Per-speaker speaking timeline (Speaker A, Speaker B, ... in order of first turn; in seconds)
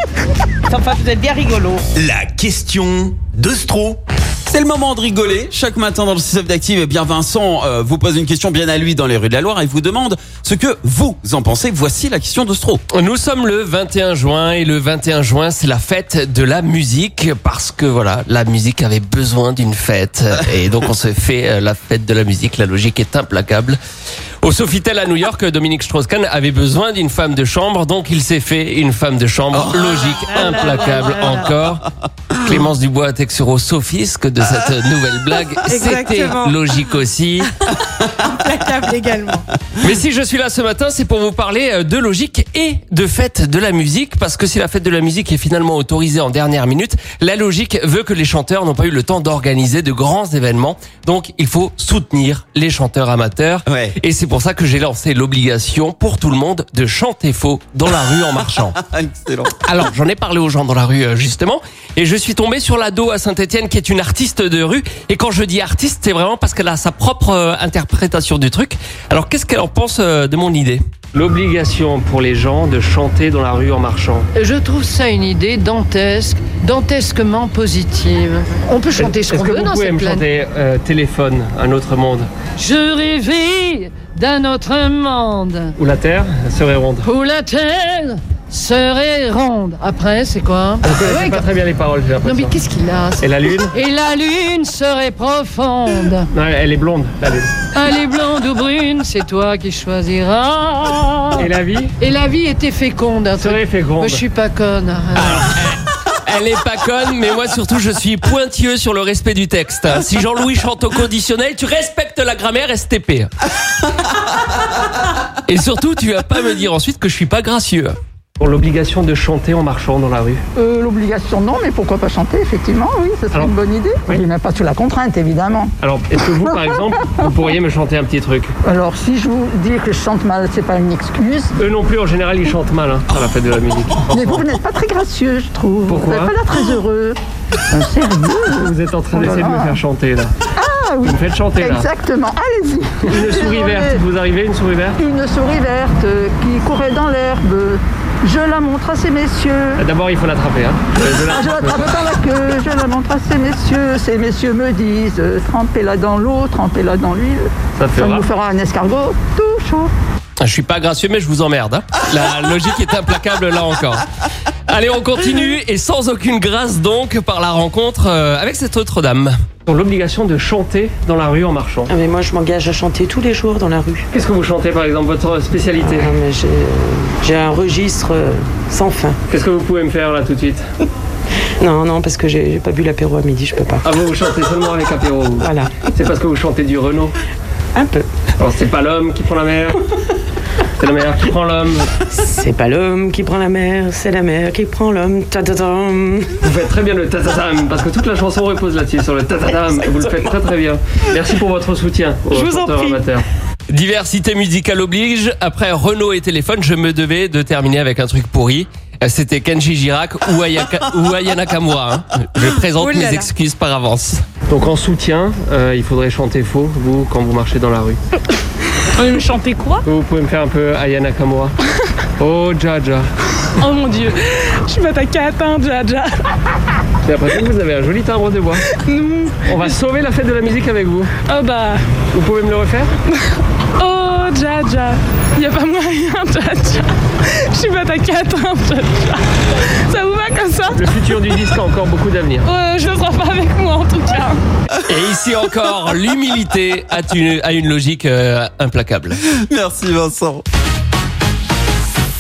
Speaker A: 1.9-4.0
Speaker B: 4.5-12.8, 53.7-53.9, 58.8-59.5, 249.3-250.4
Speaker C: 12.9-23.8, 24.4-37.5, 39.8-58.8, 59.6-74.3, 79.0-82.3, 85.8-87.0, 90.8-92.5, 93.2-93.7, 96.3-97.5, 101.4-101.9, 103.4-104.2, 105.2-113.3, 115.5-120.4, 125.8-128.5, 131.6-134.4, 135.9-136.3, 138.6-140.3, 141.0-141.9, 143.1-145.0, 149.8-152.0, 157.8-158.3, 160.4-164.1, 164.7-171.9, 174.1-176.2, 179.3-180.6, 183.8-187.1, 188.4-189.8, 190.8-191.9, 196.4-218.0, 219.8-221.5, 222.2-223.1, 227.0-228.7, 229.4-231.2, 232.1-232.9, 240.7-242.5, 244.8-249.2
Speaker D: 30.3-31.4, 35.7-36.6, 38.2-39.5, 212.8-213.3
Speaker E: 74.3-80.2, 82.6-85.8, 87.0-91.5, 92.2-96.3, 97.7-105.5
Speaker F: 120.5-127.3, 128.6-131.5, 134.1-137.2, 137.7-139.8, 140.6-144.0, 145.0-149.8, 151.2-159.9
Speaker G: 171.9-174.0, 175.8-179.2, 181.6-183.8, 185.4-185.9, 187.8-188.1, 192.1-196.3, 199.7-200.1, 202.3-203.0
Speaker H: 219.0-219.8, 223.6-226.3, 228.7-229.6, 231.2-231.8, 233.8-240.9, 242.4-244.4